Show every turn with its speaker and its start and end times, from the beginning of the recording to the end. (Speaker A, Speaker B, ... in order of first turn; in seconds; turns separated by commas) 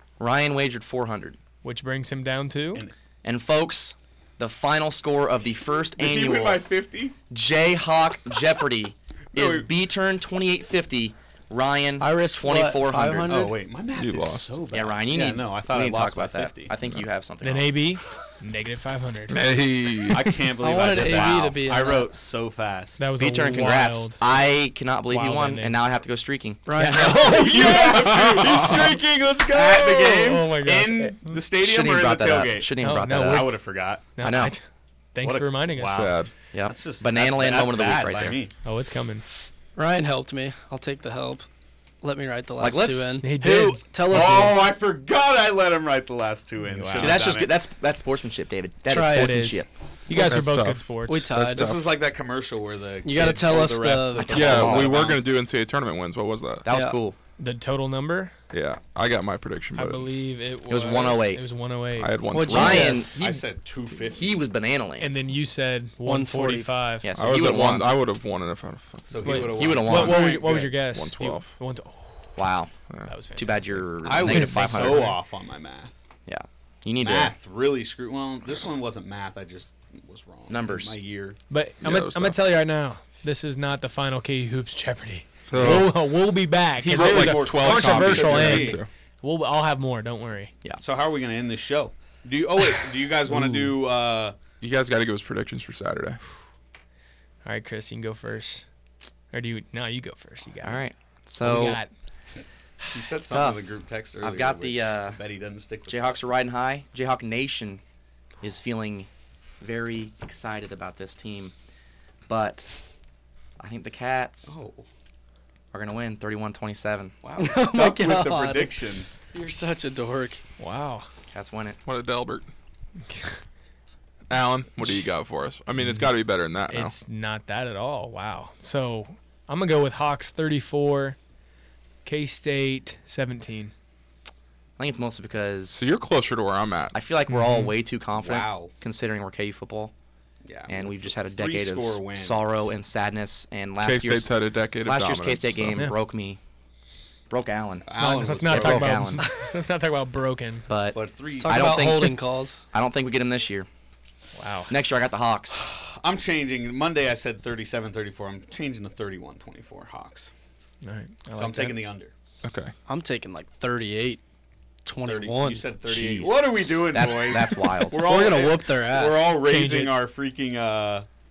Speaker A: 0.2-1.4, Speaker B: 1.6-2.8, Speaker A: 3.2-6.7, Speaker C: 6.0-7.2, Speaker A: 7.3-13.5, Speaker C: 9.3-9.7, Speaker D: 12.0-13.6, Speaker C: 13.2-16.8, Speaker E: 14.0-14.6, Speaker A: 14.7-17.8, Speaker B: 17.4-19.4, Speaker E: 19.3-20.4, Speaker C: 20.1-23.0, Speaker D: 20.6-22.1, Speaker B: 23.0-24.2, Speaker A: 23.2-28.1, Speaker B: 25.1-25.8, Speaker D: 26.7-27.4, Speaker B: 26.8-31.4, Speaker C: 27.0-34.0, Speaker E: 27.8-28.8, Speaker A: 31.6-33.5, Speaker B: 32.8-33.5, Speaker B: 34.2-36.1, Speaker A: 34.2-34.5, Speaker C: 35.2-38.5, Speaker E: 35.9-36.3, Speaker A: 36.5-38.4, Speaker B: 38.6-39.2, Speaker D: 39.8-41.5, Speaker D: 42.0-44.7, Speaker A: 42.6-43.2, Speaker B: 43.2-43.8, Speaker C: 44.0-47.5, Speaker B: 46.7-47.2, Speaker A: 47.0-49.7, Speaker D: 48.9-49.4, Speaker B: 49.1-51.3, Speaker E: 50.1-52.0, Speaker D: 51.1-51.7, Speaker C: 51.5-55.3, Speaker D: 53.0-54.9, Speaker A: 54.2-55.1, Speaker E: 54.3-56.7, Speaker A: 56.6-57.2, Speaker D: 56.7-57.0, Speaker B: 57.4-58.4, Speaker E: 58.5-60.1, Speaker B: 59.8-62.2, Speaker A: 60.7-61.4, Speaker E: 62.0-63.0, Speaker D: 62.3-63.1, Speaker A: 62.4-63.4, Speaker C: 63.0-64.4, Speaker A: 64.1-65.1, Speaker B: 65.0-67.1, Speaker D: 66.0-66.9, Speaker A: 67.0-67.9, Speaker E: 67.1-69.8, Speaker C: 69.1-70.8, Speaker B: 69.2-72.3, Speaker A: 69.4-70.4, Speaker E: 70.3-71.5, Speaker A: 72.4-72.7, Speaker E: 72.9-73.2, Speaker B: 73.1-75.2, Speaker A: 73.3-75.2, Speaker C: 74.0-76.0, Speaker A: 76.3-77.3, Speaker C: 77.0-81.4, Speaker A: 80.5-81.0, Speaker B: 81.5-90.5, Speaker E: 81.8-82.4, Speaker E: 85.5-86.1, Speaker C: 85.5-85.9, Speaker E: 86.8-88.9, Speaker C: 86.9-88.8, Speaker C: 90.8-94.4, Speaker B: 93.3-93.7, Speaker E: 94.6-96.2, Speaker B: 97.5-98.7, Speaker B: 99.3-100.8, Speaker A: 100.6-101.8, Speaker B: 101.4-101.9, Speaker C: 102.9-106.2, Speaker A: 103.3-103.6, Speaker A: 104.2-105.2, Speaker A: 105.9-107.8, Speaker A: 108.4-109.1, Speaker A: 109.6-111.5, Speaker A: 112.3-112.7, Speaker A: 113.6-114.6, Speaker C: 114.5-114.8, Speaker A: 115.7-117.2, Speaker D: 117.2-120.4, Speaker C: 117.3-119.1, Speaker B: 120.6-121.1, Speaker A: 121.3-121.8, Speaker E: 121.8-122.5, Speaker B: 123.1-123.4, Speaker E: 124.3-127.0, Speaker B: 125.8-126.1, Speaker B: 126.7-131.2, Speaker B: 132.1-133.7, Speaker A: 134.8-135.9, Speaker E: 135.7-137.0, Speaker A: 136.9-139.9, Speaker B: 137.3-137.7, Speaker C: 138.2-138.7, Speaker C: 140.4-142.7, Speaker A: 140.7-144.3, Speaker E: 143.8-145.9, Speaker A: 144.8-146.4, Speaker A: 147.3-149.3, Speaker C: 147.9-149.2, Speaker B: 147.9-150.7, Speaker A: 150.7-153.7, Speaker C: 150.9-151.7, Speaker D: 151.4-152.7, Speaker B: 154.4-154.7, Speaker A: 154.7-155.6, Speaker C: 155.6-160.3, Speaker B: 160.8-161.8, Speaker C: 161.3-162.1, Speaker E: 162.4-162.7, Speaker D: 162.9-164.2, Speaker D: 164.9-166.5, Speaker C: 165.0-171.1, Speaker A: 166.1-168.1, Speaker D: 167.9-169.3, Speaker B: 169.4-169.9